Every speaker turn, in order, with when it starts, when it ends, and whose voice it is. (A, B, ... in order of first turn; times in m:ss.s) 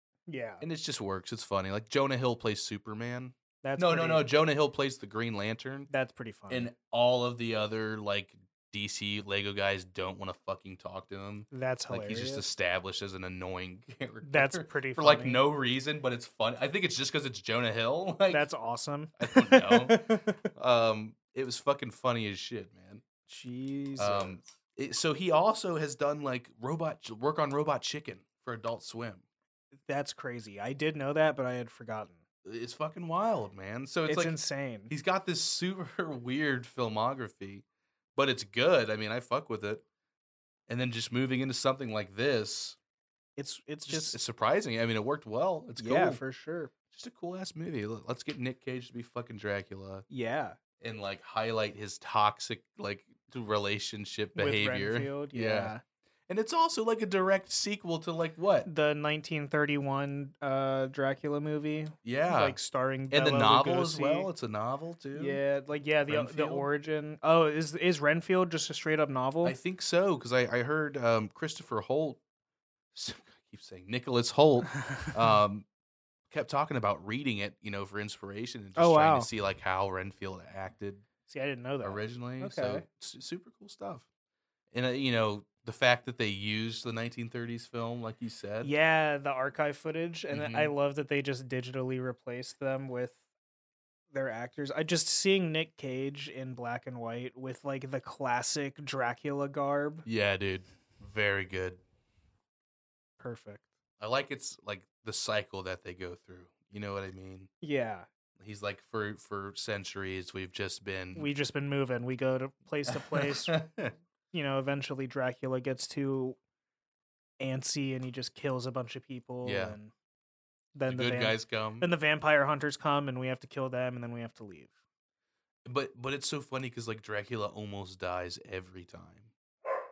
0:00.3-0:00.6 A
0:00.6-0:05.9 B
0:03.6-0:04.2 A
0:05.9-0:06.7 A
0:06.5-0:18.4 B
0:11.5-0:12.4 A
0:14.2-0:15.4 A
0:18.3-0:20.4 A
0:19.2-0:23.0 B
0:23.3-0:24.4 A
0:24.0-0:29.2 B
0:29.8-0:32.2 A
0:32.4-0:34.4 B
0:34.0-0:34.9 A
0:34.9-0:37.6 B
0:38.1-0:39.8 B
0:40.7-0:42.8 B
0:43.4-0:44.2 A
0:43.9-0:46.2 B
0:45.8-0:46.7 A
0:46.9-0:50.0 B
0:50.1-0:50.6 A
0:50.8-0:55.7 B
0:54.3-0:55.8 A
0:56.3-0:58.7 B
0:58.6-1:04.3 A
1:02.0-1:02.6 B
1:03.1-1:05.4 B
1:05.1-1:09.6 A
1:06.0-1:06.7 B
1:09.4-1:12.2 B
1:12.9-1:15.6 B
1:16.3-1:21.0 B
1:18.8-1:19.3 A
1:21.3-1:22.8 A
1:21.8-1:24.0 B
1:24.7-1:28.7 B
1:28.6-1:33.2 A
1:30.3-1:30.7 B
1:34.1-1:40.0 A
1:40.0-1:41.8 B
1:43.2-1:43.6 A
1:44.0-1:47.5 B
1:47.6-1:48.1 A
1:48.4-1:51.3 B
1:51.1-1:53.6 A
1:52.9-1:53.9 B
1:54.3-1:56.4 A
1:57.4-1:59.9 A
1:59.4-1:59.8 B
2:00.7-2:04.7 A
2:00.9-2:01.9 B
2:05.6-2:09.3 B